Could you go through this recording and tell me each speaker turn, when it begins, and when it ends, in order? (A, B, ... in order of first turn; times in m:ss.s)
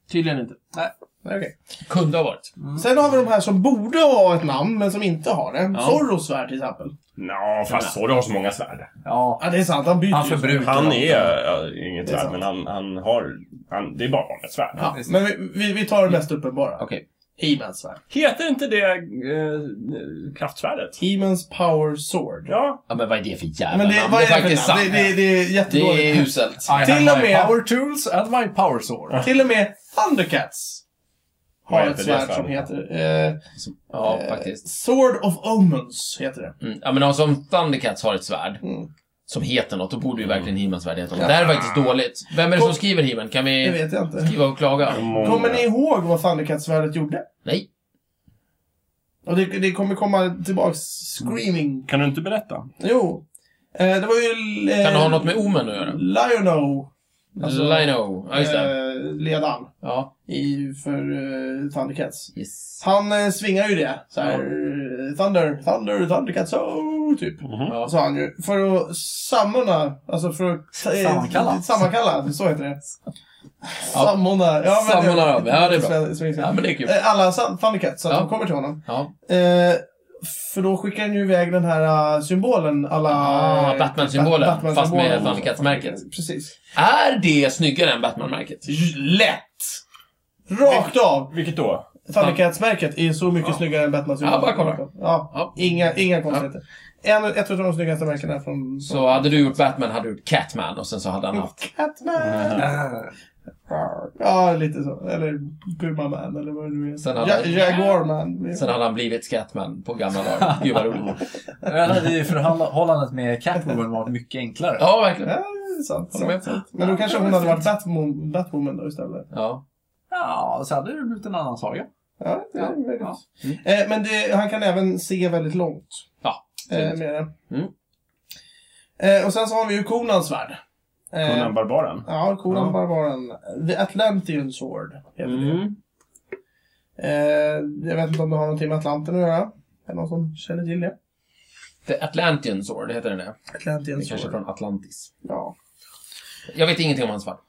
0:00.1-0:00.6 A
0:01.2-0:01.5 B
0:01.9-0:02.5 A
0:02.8-0:06.9 B
0:05.7-0:06.0 A
0:07.2-0:08.9 C
0:07.7-0:07.9 A
0:09.0-0:09.5 D
0:09.4-0:11.1 B
0:10.1-0:11.3 D
0:10.6-0:14.9 C
0:12.0-0:12.4 B
0:14.8-0:16.8 B
0:16.8-0:17.0 A
0:17.4-0:18.0 B
0:18.1-0:21.0 C
0:21.0-0:22.5 B
0:22.5-0:22.8 C
0:22.9-0:27.0 A
0:23.7-0:27.6 B
0:26.6-0:29.2 D
0:29.2-0:30.8 B
0:31.6-0:33.4 B
0:31.7-0:32.7 C
0:33.6-0:34.6 A
0:34.0-0:36.5 B
0:36.6-0:38.6 A
0:38.6-0:38.9 B
0:39.3-0:45.4 A
0:41.2-0:41.7 B
0:42.5-0:42.8 B
0:43.6-0:44.4 B
0:44.9-0:45.7 C
0:45.0-0:47.2 B
0:49.2-0:51.9 B
0:51.9-0:52.7 C
0:52.8-0:59.7 B
0:54.8-0:56.0 A
0:57.4-0:58.7 A
0:59.8-1:00.1 A
1:00.3-1:13.0 B
1:02.3-1:02.8 A
1:07.4-1:07.7 C
1:07.7-1:07.9 A
1:10.9-1:11.9 D
1:13.8-1:26.5 B
1:13.9-1:17.0 A
1:18.8-1:19.1 A
1:23.1-1:26.0 A
1:26.7-1:28.7 A
1:28.6-1:29.8 B
1:30.5-1:31.3 B
1:30.6-1:31.8 C
1:32.1-1:39.5 B
1:34.2-1:35.8 A
1:38.8-1:41.6 A
1:41.3-1:42.8 B
1:42.6-1:43.1 D
1:43.7-1:48.7 B
1:47.0-1:51.2 A
1:50.4-1:50.8 D
1:51.6-1:54.9 D
1:54.8-1:55.3 A
1:55.2-1:59.3 B
1:56.1-1:57.4 A
1:59.3-1:59.6 A
2:00.1-2:01.9 D
2:02.2-2:06.1 B
2:06.2-2:07.0 A
2:06.7-2:07.3 B
2:09.0-2:10.6 B
2:11.1-2:11.5 B
2:11.2-2:12.1 C
2:12.0-2:15.6 B
2:15.2-2:15.8 A
2:17.0-2:20.9 B
2:21.8-2:23.4 A
2:23.5-2:24.4 B
2:24.0-2:25.1 A
2:25.2-2:25.5 B
2:26.5-2:27.4 A